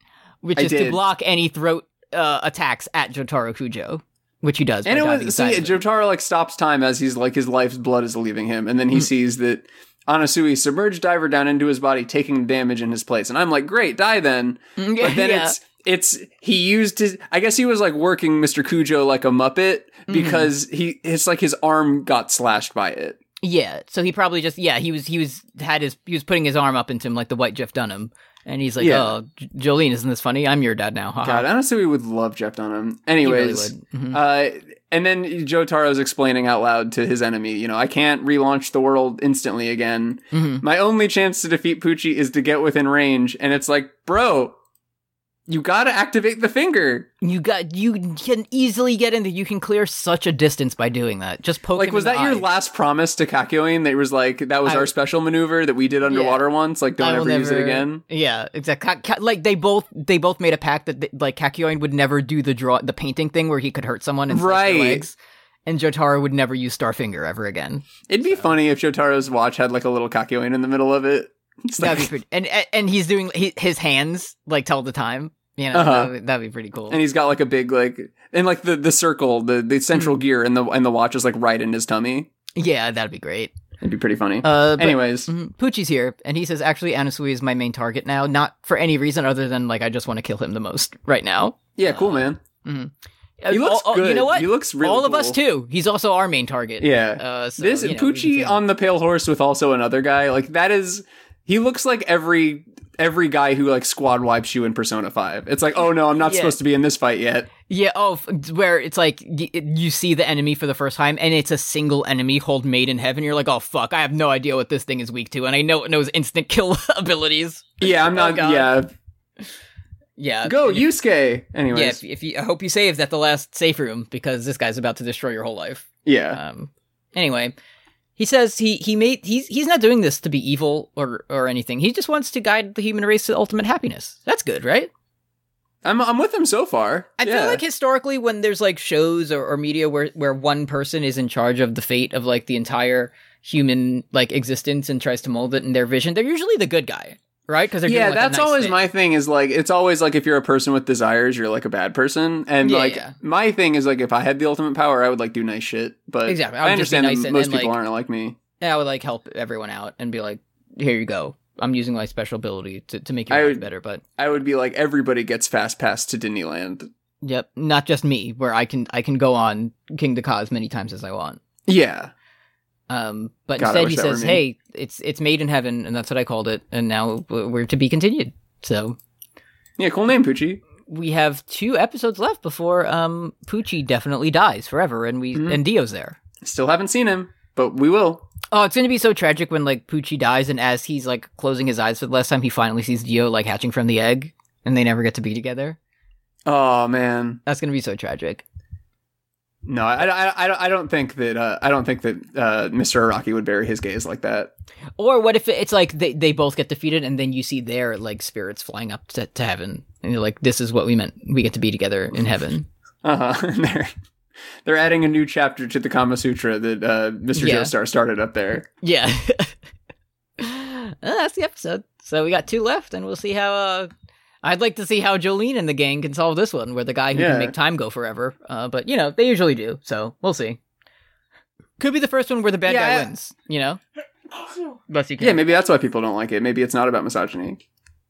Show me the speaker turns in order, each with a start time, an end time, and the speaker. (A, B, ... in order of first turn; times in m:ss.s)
0:00.4-0:05.8 A
0:00.5-0:01.0 B
0:04.8-0:23.2 B
0:14.8-0:15.6 A
0:20.1-0:20.5 A
0:23.4-0:31.5 A
0:28.8-0:29.1 B
0:31.2-0:44.6 B
0:33.2-0:34.2 A
0:40.3-0:40.6 A
0:45.5-0:47.1 B
0:47.2-0:52.5 A
0:51.7-0:58.0 B
0:54.6-0:54.9 A
0:56.1-0:56.4 A
0:57.0-1:08.5 A
1:04.3-1:05.0 B
1:08.1-1:12.1 B
1:11.8-1:17.0 A
1:15.7-1:16.1 B
1:16.9-1:22.3 B
1:22.5-1:23.5 A
1:23.8-1:25.3 B
1:24.4-1:38.6 A
1:31.8-1:32.4 B
1:33.5-1:35.4 B
1:36.8-1:47.5 B
1:46.2-1:46.6 A
1:47.7-1:58.7 A
1:57.8-1:58.9 B
2:00.2-2:00.9 A
2:00.4-2:02.0 B
2:01.7-2:07.5 A
2:06.0-2:06.4 B
2:08.2-2:14.9 A
2:15.8-2:17.6 B
2:17.2-2:28.8 A
2:27.8-2:38.4 B
2:32.6-2:33.1 A
2:36.2-2:37.8 A
2:38.6-2:44.0 A
2:43.3-2:43.6 B
2:44.2-2:46.9 B
2:47.2-2:51.4 A
2:51.6-2:52.1 B
2:52.9-2:59.0 A
2:53.6-2:54.4 B
2:59.8-3:00.6 B
3:00.8-3:06.2 A
3:05.3-3:05.6 B
3:06.4-3:08.3 B
3:08.5-3:15.8 A
3:16.4-3:17.4 B
3:17.4-3:18.4 A
3:19.6-3:24.5 B
3:25.0-3:32.7 A
3:33.0-3:33.9 B
3:34.6-3:38.7 B
3:37.3-3:37.7 A
3:38.8-3:39.6 A
3:40.4-3:43.9 A
3:44.4-3:50.6 A
3:47.1-3:47.5 B
3:51.8-3:53.8 A
3:52.6-3:53.1 B
3:54.9-3:55.4 A
3:55.2-3:57.6 B